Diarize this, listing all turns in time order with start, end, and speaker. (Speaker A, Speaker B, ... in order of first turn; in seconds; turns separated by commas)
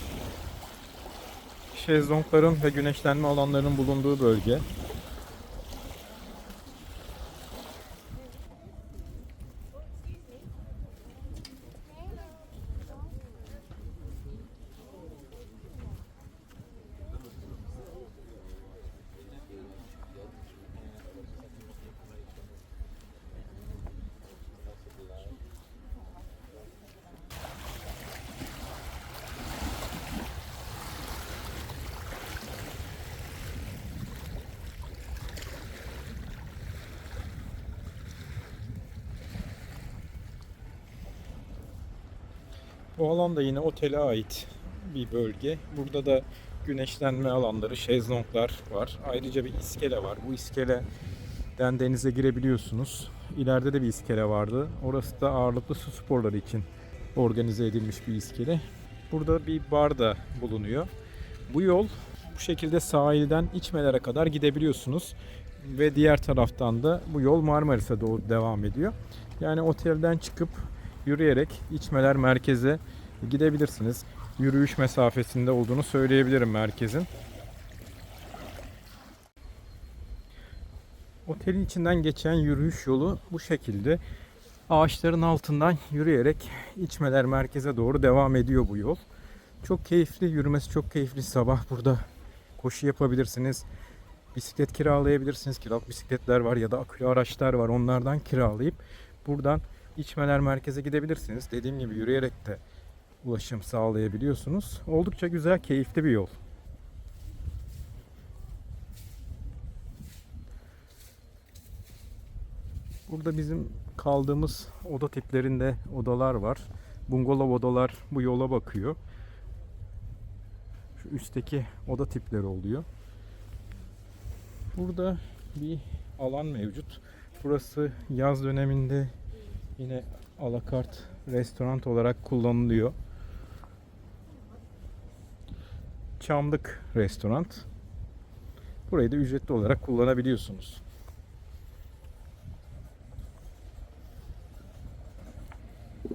Speaker A: 1.7-4.7, Speaker A: 43.0-50.9, Speaker A: 51.6-60.9, Speaker A: 61.5-77.1, Speaker A: 81.3-84.0, Speaker A: 84.7-89.0, Speaker A: 89.6-93.7, Speaker A: 94.3-102.6, Speaker A: 103.2-106.4, Speaker A: 113.1-119.0, Speaker A: 121.0-122.9, Speaker A: 124.7-129.1, Speaker A: 129.8-132.9, Speaker A: 136.2-137.7, Speaker A: 138.9-140.8